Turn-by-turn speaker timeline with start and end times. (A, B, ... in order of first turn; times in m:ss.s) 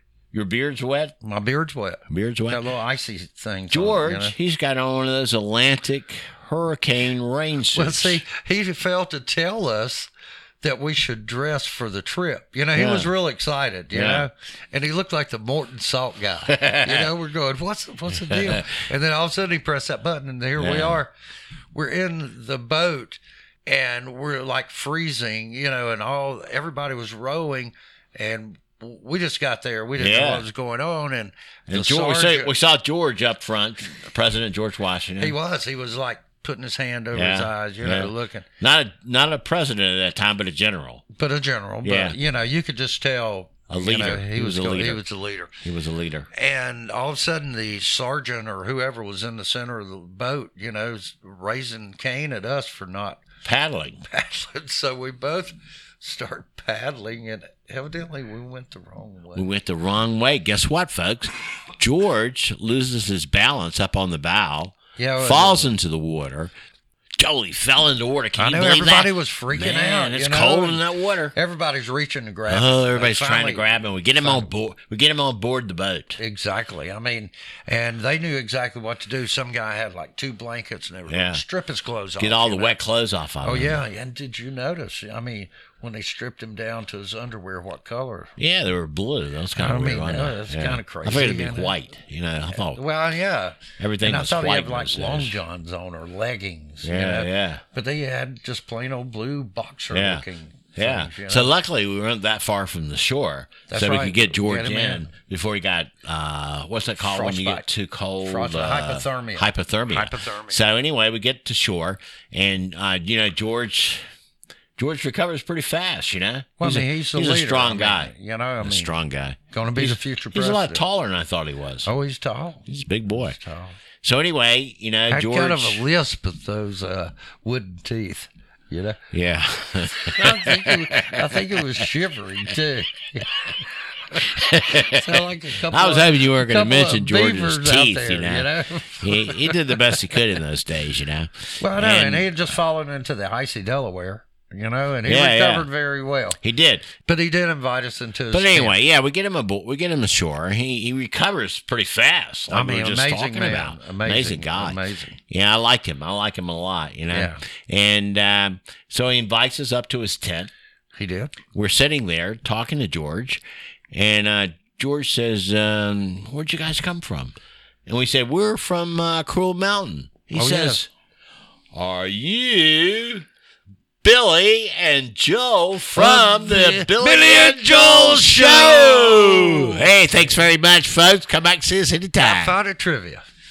0:00.3-0:01.1 A
0:01.2-0:04.3 B
0:02.1-0:02.6 A
0:03.7-0:08.2 A
0:07.7-0:10.1 B
0:10.6-0:21.1 B
0:12.8-0:13.1 A
0:13.9-0:14.2 A
0:16.5-0:16.8 A
0:18.4-0:18.8 A
0:20.6-0:21.0 A
0:21.7-0:32.5 B
0:30.0-0:30.4 A
0:31.7-0:35.3 A
0:35.2-0:38.4 B
0:37.1-0:41.0 A
0:41.2-0:45.5 B
0:41.8-0:42.2 A
0:43.7-0:45.0 A
0:45.6-0:46.3 A
0:46.3-0:53.2 B
0:53.4-0:54.0 A
0:54.0-0:59.4 B
0:59.3-1:06.5 A
1:05.0-1:05.7 B
1:07.2-1:11.3 A
1:08.4-1:14.5 B
1:12.5-1:16.2 A
1:16.2-1:22.8 B
1:21.1-1:21.4 A
1:22.2-1:23.8 A
1:23.4-1:28.3 B
1:28.4-1:32.8 A
1:29.5-1:31.7 B
1:32.5-1:41.5 B
1:33.8-1:35.4 A
1:36.8-1:37.6 A
1:39.9-1:54.0 A
1:43.7-1:45.1 B
1:47.0-1:47.7 B
1:48.2-1:50.6 B
1:54.8-2:01.9 A
1:56.6-1:58.9 B
1:59.5-2:00.8 B
2:01.8-2:03.8 B
2:02.7-2:03.4 A
2:04.0-2:05.8 A
2:05.1-2:09.0 B
2:09.1-2:11.8 A
2:09.9-2:20.2 B
2:14.2-2:22.3 A
2:21.6-2:26.4 B
2:25.0-2:25.7 A
2:26.4-2:26.9 A
2:27.0-2:28.8 B
2:28.3-2:40.5 A
2:32.5-2:35.2 B
2:37.1-2:37.4 B
2:41.0-2:41.4 B
2:41.5-2:47.4 A
2:47.9-2:50.9 A
2:50.3-2:50.8 B
2:51.7-2:53.2 A
2:54.0-3:02.6 A
2:55.9-2:59.9 B
3:02.2-3:03.2 B